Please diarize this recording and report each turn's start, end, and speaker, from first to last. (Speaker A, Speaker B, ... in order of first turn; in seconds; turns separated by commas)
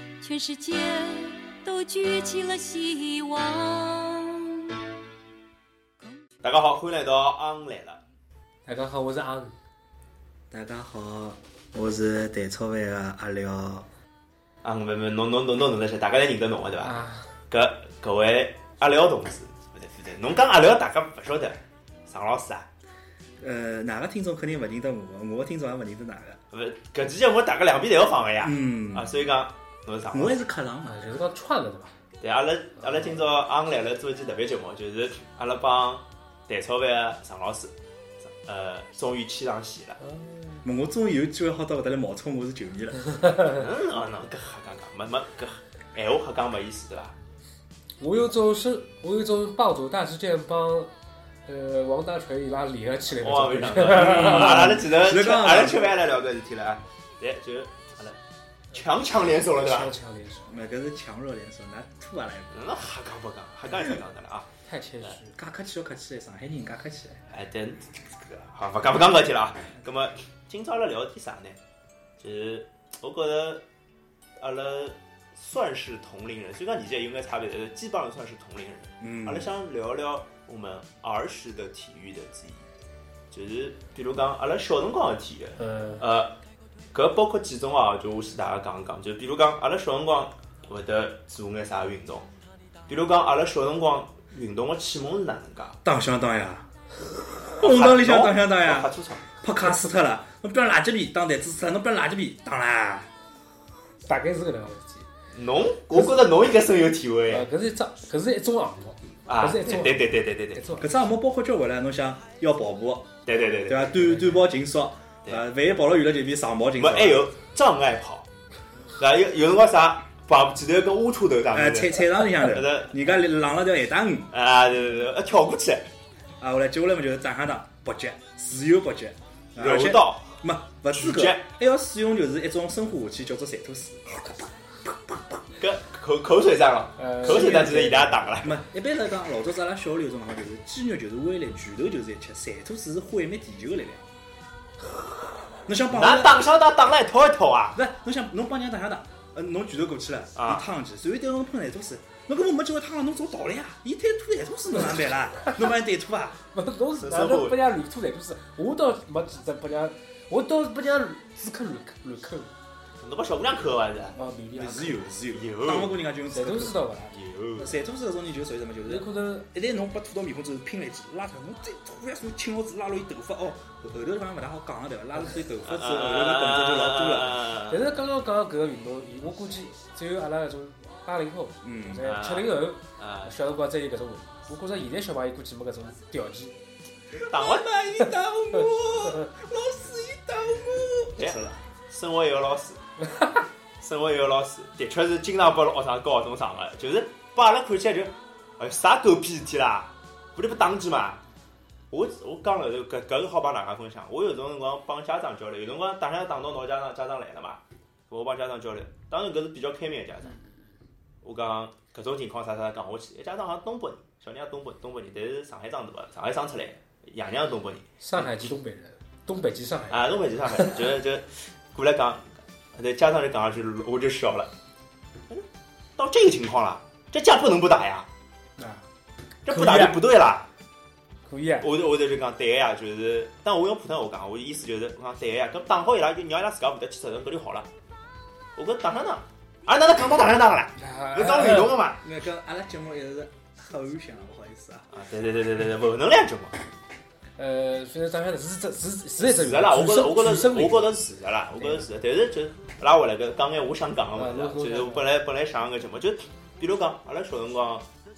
Speaker A: 0.2-4.8, Speaker B: 6.4-8.0, Speaker C: 8.7-9.6, Speaker D: 10.5-13.9, Speaker B: 14.6-17.0, Speaker C: 16.8-17.3, Speaker B: 17.5-22.7, Speaker D: 23.4-26.4, Speaker B: 26.5-30.4, Speaker D: 28.4-29.1, Speaker D: 30.1-31.0, Speaker C: 30.9-31.9, Speaker B: 32.2-37.7, Speaker B: 38.3-40.0, Speaker C: 40.0-40.6, Speaker D: 40.6-43.2, Speaker B: 43.5-47.2, Speaker C: 48.0-50.9, Speaker C: 51.5-54.8, Speaker B: 53.1-58.2, Speaker D: 54.1-56.0, Speaker B: 58.7-59.9, Speaker C: 59.6-60.5, Speaker D: 60.5-62.7, Speaker B: 62.5-64.5, Speaker C: 64.7-65.3, Speaker D: 65.3-67.2, Speaker B: 67.3-71.6, Speaker B: 72.2-73.6, Speaker B: 74.4-82.6, Speaker D: 79.0-79.5, Speaker B: 83.3-86.3, Speaker C: 85.6-86.0, Speaker B: 86.9-92.3, Speaker B: 92.9-95.8, Speaker D: 95.8-96.7, Speaker D: 97.3-103.1, Speaker B: 97.5-99.3, Speaker C: 104.1-105.1, Speaker B: 105.3-107.5, Speaker C: 107.3-110.9, Speaker B: 109.3-110.8, Speaker D: 110.8-113.1, Speaker B: 113.3-114.0, Speaker D: 113.7-117.3, Speaker B: 116.8-118.3, Speaker B: 119.0-123.0, Speaker D: 121.5-124.3, Speaker B: 124.3-125.9, Speaker D: 126.4-135.3, Speaker B: 129.6-130.4, Speaker B: 130.9-131.4, Speaker B: 135.6-138.6, Speaker C: 137.0-138.2, Speaker D: 137.3-144.1, Speaker D: 145.7-146.5, Speaker B: 145.9-147.8, Speaker D: 147.8-156.4, Speaker B: 150.4-150.7, Speaker C: 156.5-162.5, Speaker B: 157.0-157.6, Speaker B: 163.0-164.2, Speaker C: 164.2-165.0, Speaker D: 164.5-166.9, Speaker B: 165.3-166.0, Speaker C: 166.3-167.1, Speaker B: 167.1-167.8, Speaker D: 167.6-177.5, Speaker C: 168.9-169.5, Speaker B: 175.7-178.0, Speaker C: 177.7-186.5, Speaker D: 181.6-182.1, Speaker B: 182.0-183.3, Speaker D: 187.1-191.6, Speaker B: 187.3-187.7, Speaker B: 191.2-192.8, Speaker B: 193.8-201.2, Speaker B: 201.9-210.4, Speaker B: 211.2-218.5, Speaker C: 218.0-220.0, Speaker B: 219.9-224.5, Speaker B: 226.0-228.1, Speaker C: 228.6-228.8, Speaker B: 229.5-230.5, Speaker C: 229.5-230.0, Speaker C: 231.3-231.7, Speaker B: 231.6-237.7, Speaker B: 238.6-242.0, Speaker C: 240.8-241.8, Speaker D: 242.0-244.9, Speaker B: 244.9-246.6, Speaker C: 247.4-250.9, Speaker B: 249.2-257.9, Speaker C: 254.2-255.1